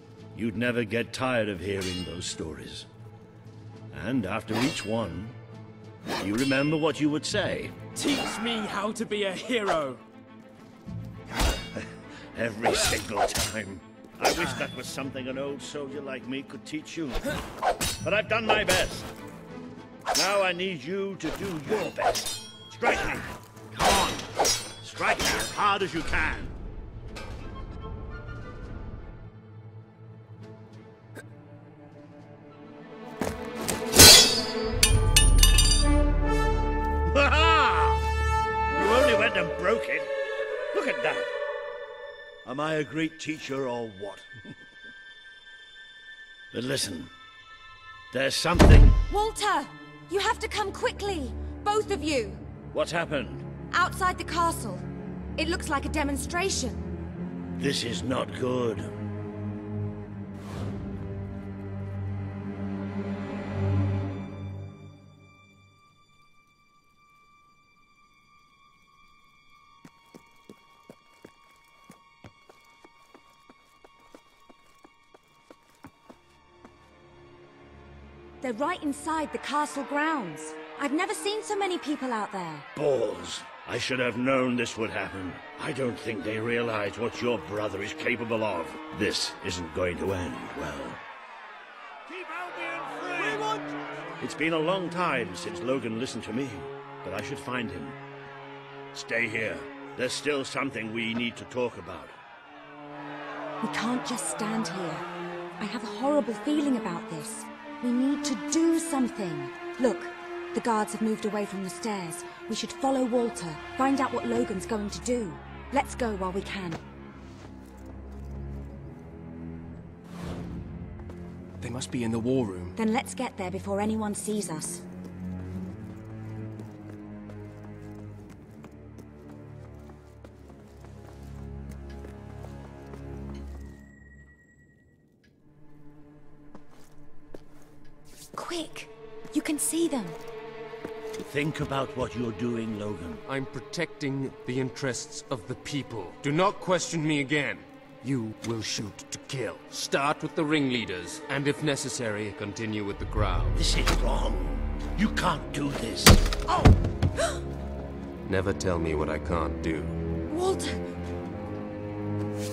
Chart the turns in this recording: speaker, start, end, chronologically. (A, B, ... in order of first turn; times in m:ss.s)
0:00.3-0:02.9 A
0:03.9-0:05.4 A
0:06.2-0:07.7 A
0:07.9-0:10.0 B
0:11.8-0:17.4 A
0:18.0-0:19.1 A
0:20.1-0:24.3 A
0:24.8-0:26.5 A
0:37.1-0:38.1 A
0:38.7-0:40.1 A
0:40.7-0:41.3 A
0:42.4-0:44.5 A
0:46.5-0:47.1 A
0:48.1-0:49.0 A
0:49.1-0:52.4 C
0:52.7-0:53.4 A
0:53.7-0:56.9 C
0:57.6-0:58.9 A
1:18.4-1:22.7 C
1:22.8-1:31.0 A
1:32.1-1:33.6 A
1:34.2-1:38.0 A
1:38.9-1:42.1 A
1:43.6-1:45.1 C
1:45.6-1:56.8 C
2:01.6-2:02.8 B
2:02.8-2:04.8 C
2:18.3-2:20.2 C
2:21.2-2:23.2 A
2:23.3-2:33.6 D
2:33.6-2:36.2 A
2:38.2-2:40.0 D
2:40.3-2:40.8 C